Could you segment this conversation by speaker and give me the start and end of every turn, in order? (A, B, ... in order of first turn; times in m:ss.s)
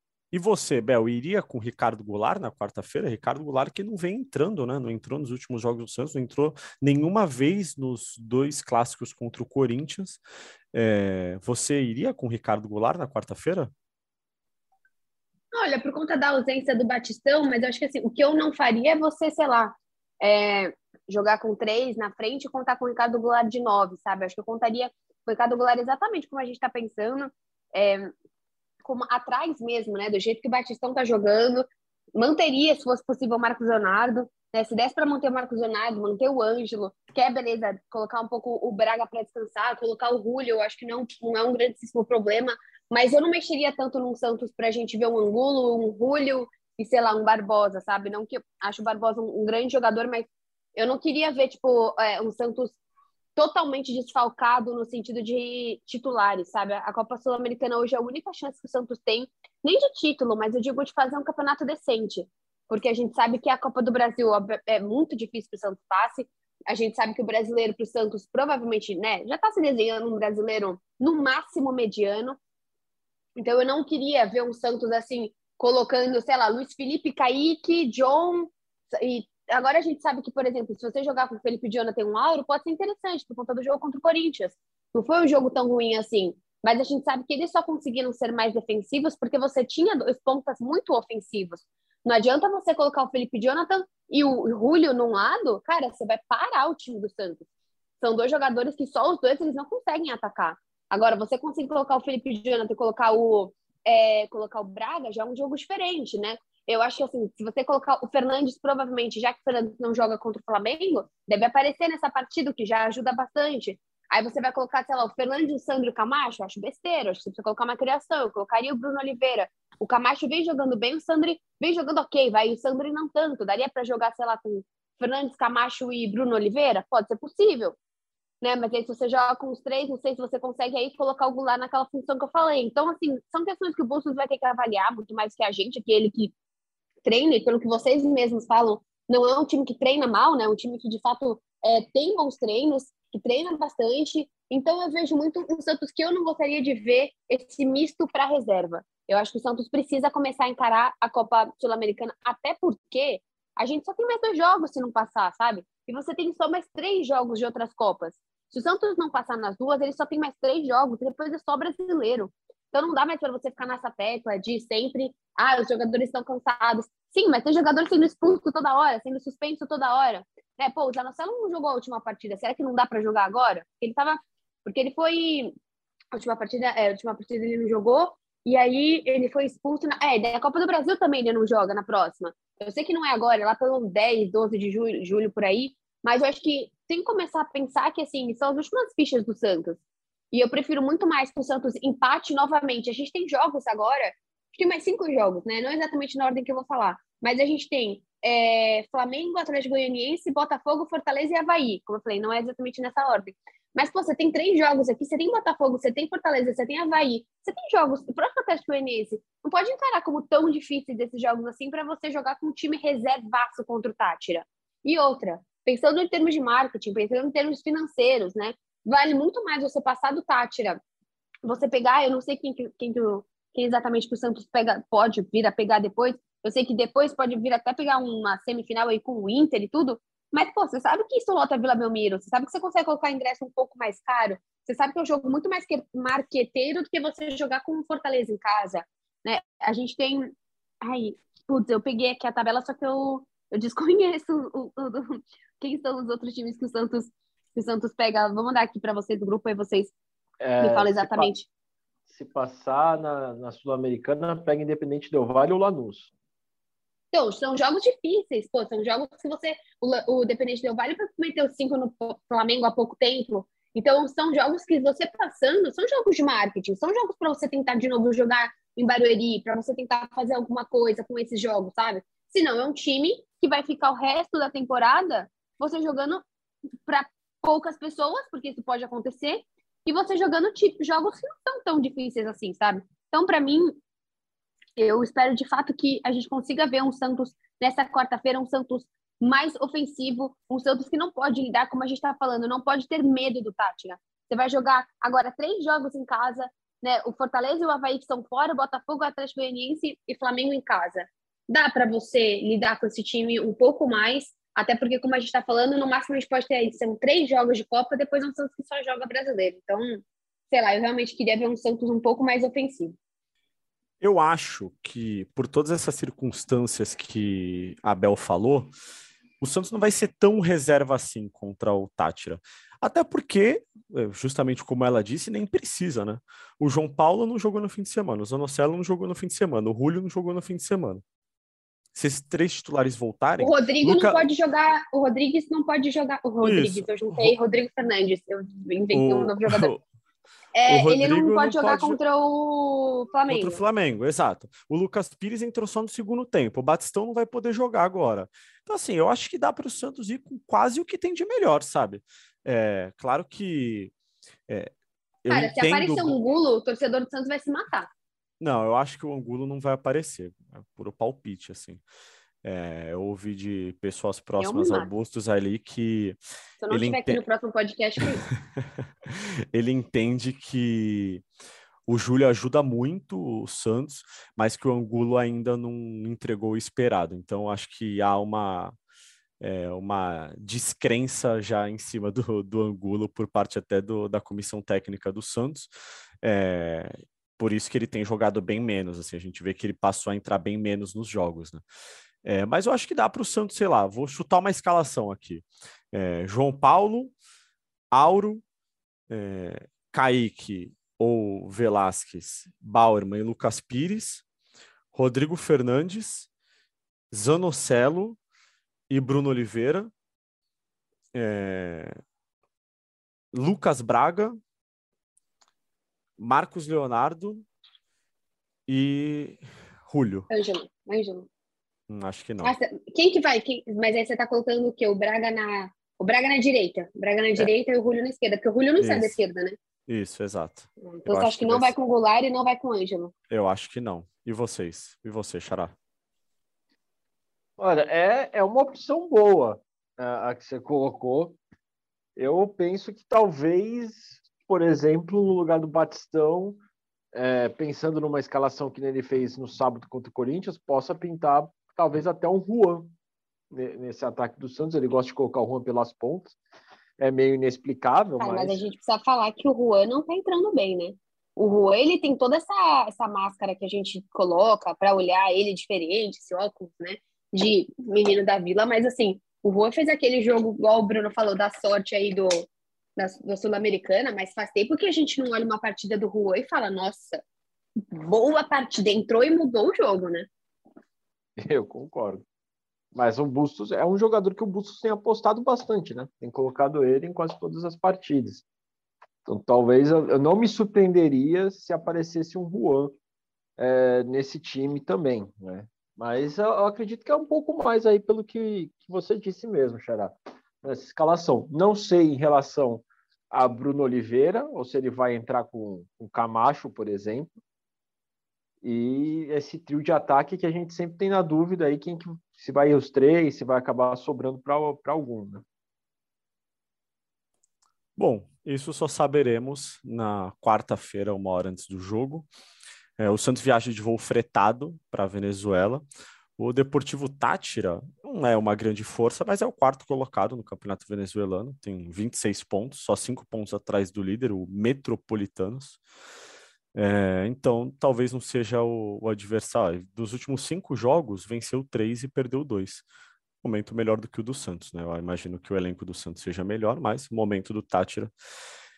0:00.3-0:10.2 A
0:10.7-0:13.7 A
0:15.5-0:28.1 B
0:28.8-0:52.8 B
0:53.4-1:12.4 B
1:13.4-1:37.5 B
1:38.0-2:07.8 B
2:08.4-2:16.3 B
2:17.0-2:55.6 B
2:56.1-3:09.8 B
3:10.3-3:40.8 B
3:41.4-4:09.9 B
4:10.4-4:11.3 C
4:10.6-4:11.5 B
4:12.1-4:16.1 C
4:17.1-4:36.2 B
4:36.9-4:43.8 B
4:44.8-5:13.0 B
5:14.0-5:18.7 A
5:19.4-5:31.0 A
5:32.0-5:34.2 A
5:33.4-5:39.7 B
5:36.4-5:37.4 A
5:38.9-5:39.8 A
5:40.6-5:43.6 B
5:40.7-5:42.0 A
5:43.3-5:53.9 A
5:54.5-5:54.7 A
5:55.2-5:56.2 A
5:55.3-5:57.9 B
5:58.4-6:01.8 A
6:02.4-6:06.2 A
6:04.4-6:04.9 B
6:06.6-6:08.2 B
6:06.7-6:07.2 A
6:09.1-6:11.2 A
6:11.9-6:18.8 A
6:19.4-6:25.7 A
6:26.2-6:31.6 A
6:32.2-6:37.1 A
6:37.9-6:38.4 A
6:39.1-6:44.2 A
6:44.9-6:46.3 A
6:47.1-6:48.2 A
6:48.9-6:49.9 A
6:51.1-6:52.0 A
6:53.3-6:54.4 A
6:56.2-6:57.4 A
6:58.7-7:00.3 A
7:00.3-7:01.3 B
7:01.9-7:02.6 A
7:02.4-7:09.6 B
7:08.8-7:09.2 A
7:09.9-7:11.7 A
7:10.8-7:13.1 B
7:13.3-7:15.7 A
7:17.6-7:21.4 C
7:22.2-7:26.6 C
7:27.1-7:32.9 C
7:33.5-7:36.4 C
7:37.0-7:38.6 C
7:38.2-7:52.5 B
7:53.0-7:57.2 B
7:57.9-8:00.3 B
8:01.4-8:02.2 C
8:02.9-8:08.4 C
8:09.3-8:13.0 C
8:13.6-8:27.3 C
8:28.6-8:35.4 C
8:38.0-8:42.3 A
8:43.0-8:45.8 A
8:46.4-8:55.8 A
8:56.8-9:02.8 A
9:03.4-9:08.1 A